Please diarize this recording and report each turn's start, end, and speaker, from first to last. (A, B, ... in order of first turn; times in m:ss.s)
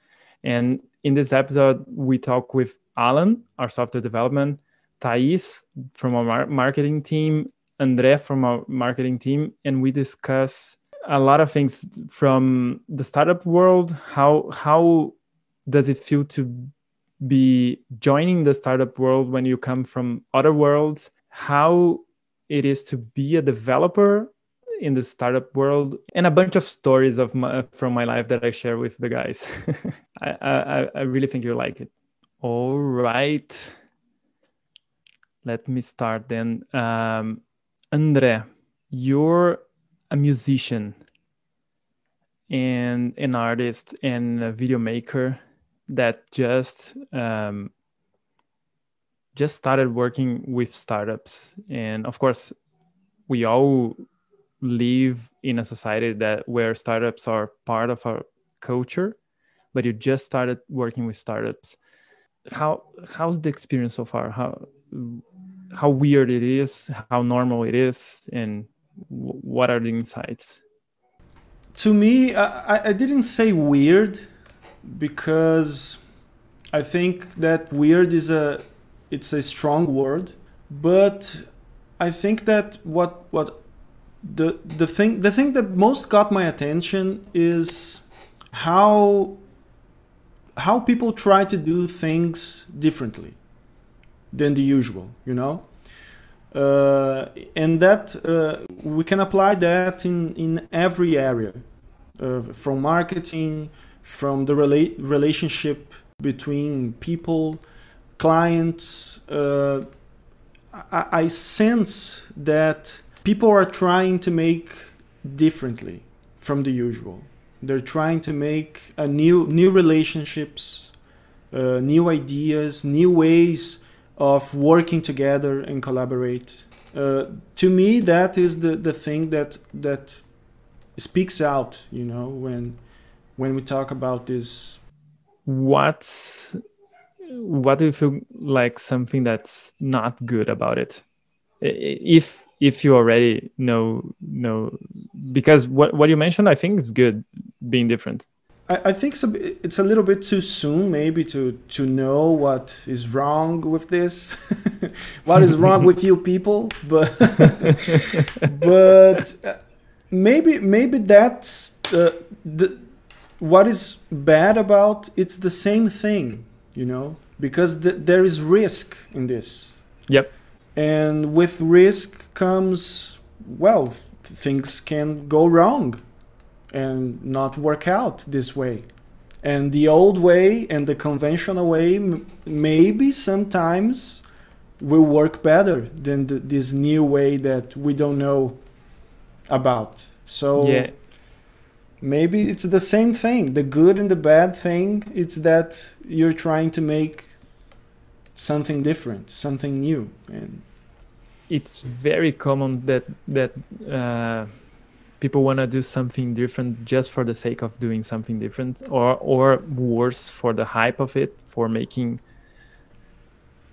0:00.4-0:15.2 A
0:15.7-0:33.7 A
0:35.4-0:41.0 A
0:42.5-0:47.7 A
0:49.4-0:52.6 A
0:53.3-0:54.0 A
0:54.6-0:59.2 A
0:59.7-1:01.8 A
1:02.5-1:10.6 A
1:11.7-1:14.3 B
1:14.8-1:16.0 B
1:16.7-1:29.4 B
1:30.6-1:33.4 B
1:34.3-1:35.7 B
1:36.5-1:41.6 B
1:42.2-1:47.6 B
1:48.2-1:50.0 B
1:50.7-2:01.0 B
2:01.5-2:12.8 B
2:13.4-2:14.8 B
2:15.5-2:16.6 A
2:17.3-2:21.0 A
2:21.6-2:28.3 A
2:28.7-2:50.1 B
2:50.1-2:50.3 A
2:50.7-2:56.0 B
2:56.7-2:58.9 B
2:59.4-3:04.3 B
3:04.8-3:08.9 B
3:09.4-3:11.1 B
3:10.6-3:10.9 A
3:12.0-3:17.4 B
3:18.4-3:20.7 B
3:21.5-3:24.6 A
3:25.2-3:32.2 A